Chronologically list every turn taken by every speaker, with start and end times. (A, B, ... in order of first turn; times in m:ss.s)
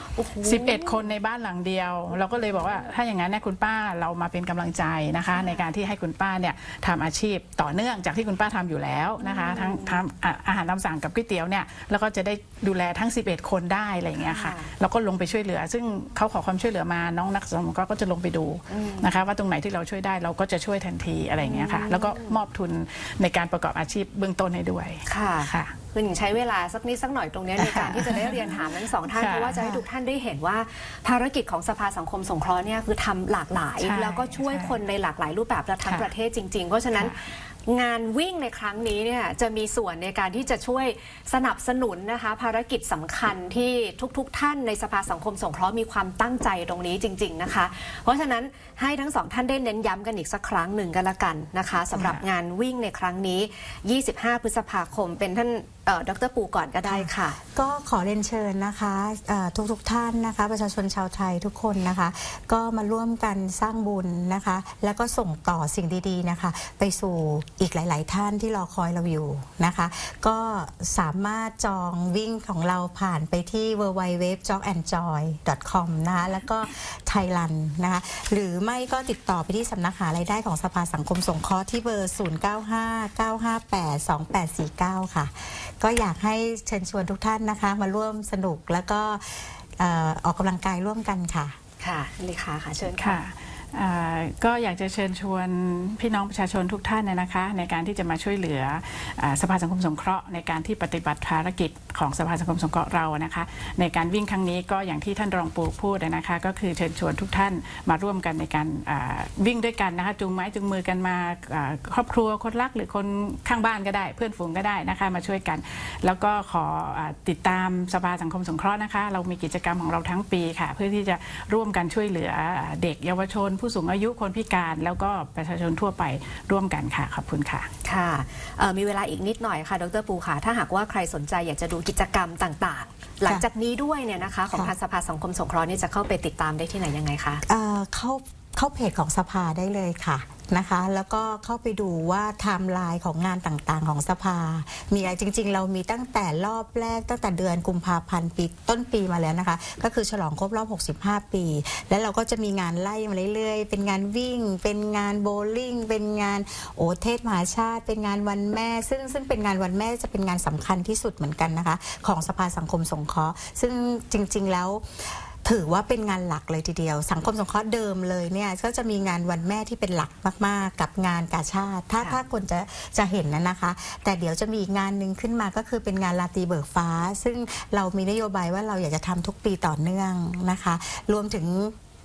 0:00.2-0:01.1 A
0:00.4-0:25.7 B
0:02.2-0:02.8 A
0:05.3-0:05.7 A
0:09.2-0:10.0 A
0:14.2-0:14.7 A
0:18.7-0:19.2 A
0:21.4-0:22.4 A
0:25.1-0:57.4 A
0:27.6-0:29.7 B
0:33.8-0:34.8 B
0:35.8-0:36.1 B
0:56.8-1:31.5 C
1:31.8-1:33.2 A
1:33.0-2:07.7 B
2:07.8-2:17.4 A
2:17.4-3:01.7 C